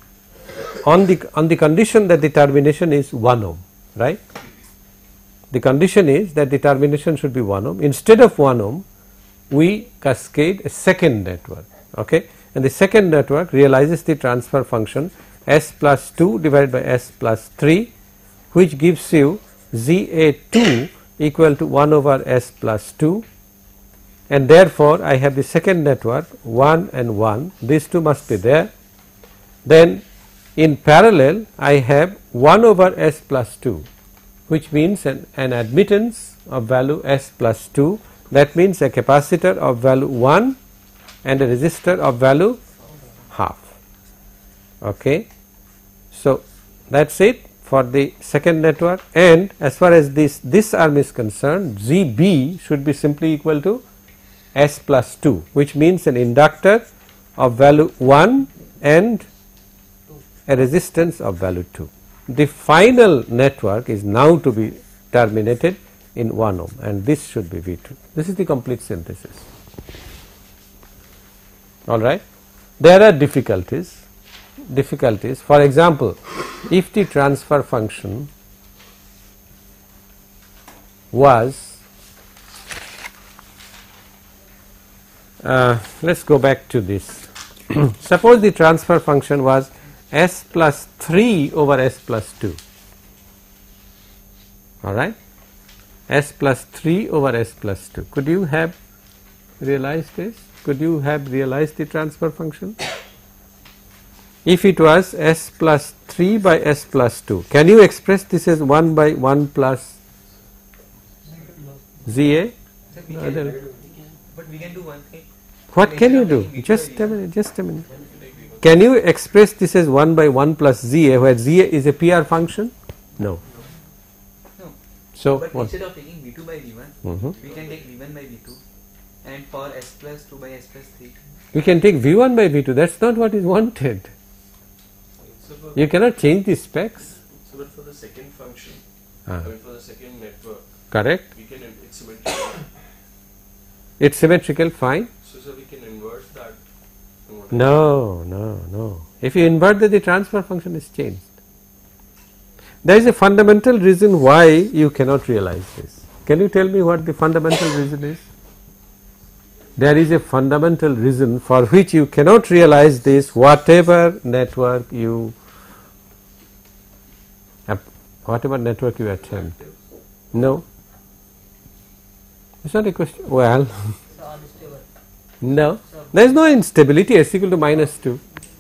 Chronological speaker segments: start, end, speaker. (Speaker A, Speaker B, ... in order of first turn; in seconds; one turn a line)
Speaker A: 0.8-4.2
Speaker A: 5.5-8.8
Speaker A: 9.5-17.9
Speaker A: 18.5-23.3
Speaker A: 24.3-28.7
Speaker A: 29.6-30.0
Speaker A: 30.6-33.9
Speaker A: 34.5-40.6
Speaker A: 41.2-42.6
Speaker A: 43.3-43.7
Speaker A: 44.8-45.3
Speaker A: 46.1-53.8
Speaker A: 54.5-56.8
Speaker A: 57.4-59.3
Speaker A: 60.5-69.5
Speaker A: 71.9-72.2
Speaker A: 72.8-74.1
Speaker A: 74.7-78.3
Speaker A: 81.1-81.8
Speaker A: 85.4-92.6
Speaker A: 94.8-95.2
Speaker A: 96.1-98.8
Speaker A: 99.6-102.8
Speaker A: 104.5-110.0
Speaker A: 112.1-112.5
Speaker B: 112.9-117.2
Speaker A: 113.1-113.6
Speaker C: 113.3-113.8
Speaker A: 115.7-117.9
Speaker C: 117.9-118.7
Speaker A: 118.6-123.4
Speaker A: 125.2-125.7
Speaker B: 125.3-128.6
Speaker A: 127.0-127.3
Speaker C: 127.3-127.8
Speaker B: 129.2-131.2
Speaker A: 131.5-134.1
Speaker C: 135.2-135.9
Speaker A: 135.8-137.2
Speaker C: 137.4-138.8
Speaker C: 139.4-142.7
Speaker A: 140.9-141.3
Speaker A: 144.0-145.1
Speaker C: 145.2-146.6
Speaker C: 147.3-147.7
Speaker A: 147.5-151.3
Speaker A: 152.8-158.3
Speaker A: 159.8-165.4
Speaker A: 167.7-169.6
Speaker A: 170.3-170.6
Speaker A: 172.6-173.7
Speaker B: 174.1-174.9
Speaker A: 175.4-178.2
Speaker B: 175.9-176.1